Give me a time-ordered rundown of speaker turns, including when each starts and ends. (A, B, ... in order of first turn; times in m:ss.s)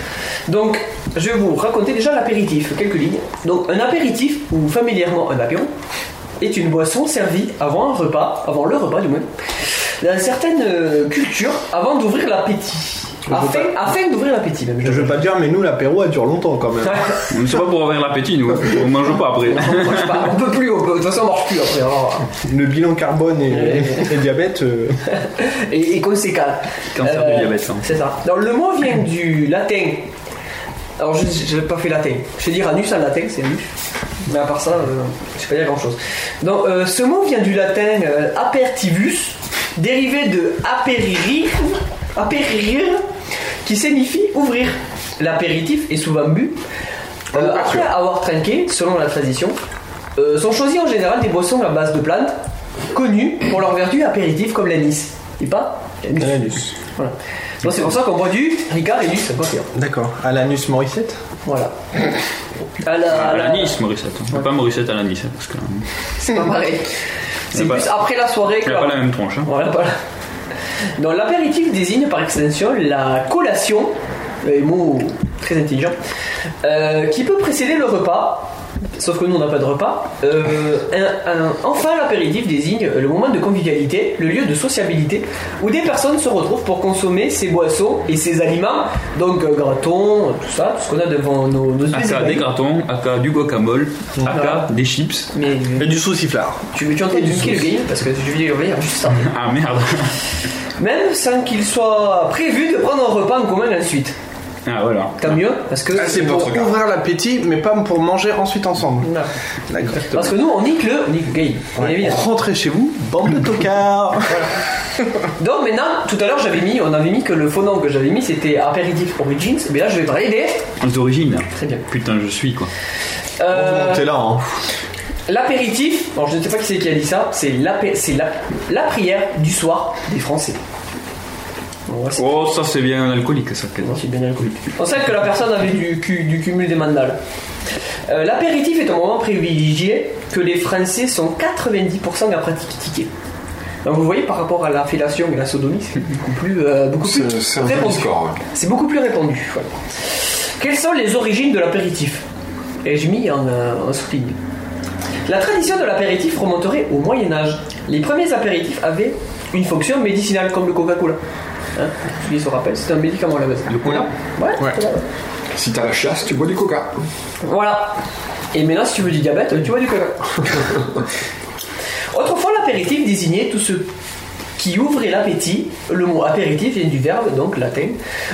0:00.5-0:05.7 A
0:06.4-0:09.3 A
0:10.0-0:15.3 A
0:13.3-0:13.9 B
0:14.8-0:17.2 B
0:16.8-0:17.2 A
0:17.3-0:20.3 C
0:19.5-0:22.3 A
0:22.4-0:25.0 B
0:23.5-0:24.1 A
0:25.2-0:30.1 A
0:27.0-0:27.9 C
0:31.0-0:33.7 A
0:34.2-0:43.0 A
0:43.6-0:46.6 A
0:47.3-0:47.9 B
0:47.3-0:49.6 A
0:50.2-0:52.4 A
0:52.9-0:59.7 A
0:56.2-0:56.7 B
0:59.7-1:01.2 B
1:01.5-1:01.7 A
1:02.8-1:03.8 A
1:03.0-1:05.9 C
1:06.2-1:06.9 A
1:07.5-1:10.0 A
1:07.5-1:08.1 C
1:08.6-1:09.5 C
1:11.0-1:16.0 A
1:16.6-1:32.5 A
1:31.9-1:35.3 C
1:34.3-1:34.7 A
1:35.3-1:36.0 A
1:35.8-1:37.7 B
1:36.7-1:39.3 A
1:39.1-1:40.2 C
1:40.8-1:44.2 A
1:44.6-1:45.4 C
1:45.2-1:46.7 A
1:45.9-1:49.1 B
1:49.0-1:49.3 A
1:49.7-1:50.2 B
1:50.1-1:52.2 A
1:51.8-1:54.5 B
1:55.4-2:00.6 A
2:00.8-2:02.7 C
2:01.6-2:01.8 A
2:03.4-2:04.2 A
2:03.5-2:04.6 B
2:05.3-2:10.6 A
2:11.9-2:12.3 A
2:12.2-2:14.0 C
2:13.8-2:17.2 A
2:18.1-2:23.1 A
2:23.8-2:32.2 A
2:27.0-2:28.4 D
2:32.8-2:34.4 A
2:35.2-2:41.2 A
2:41.8-2:45.1 A
2:43.7-2:44.1 C
2:45.5-2:47.0 D
2:47.4-2:48.0 A
2:48.5-2:50.5 A
2:52.1-2:53.9 A
2:54.6-2:58.0 A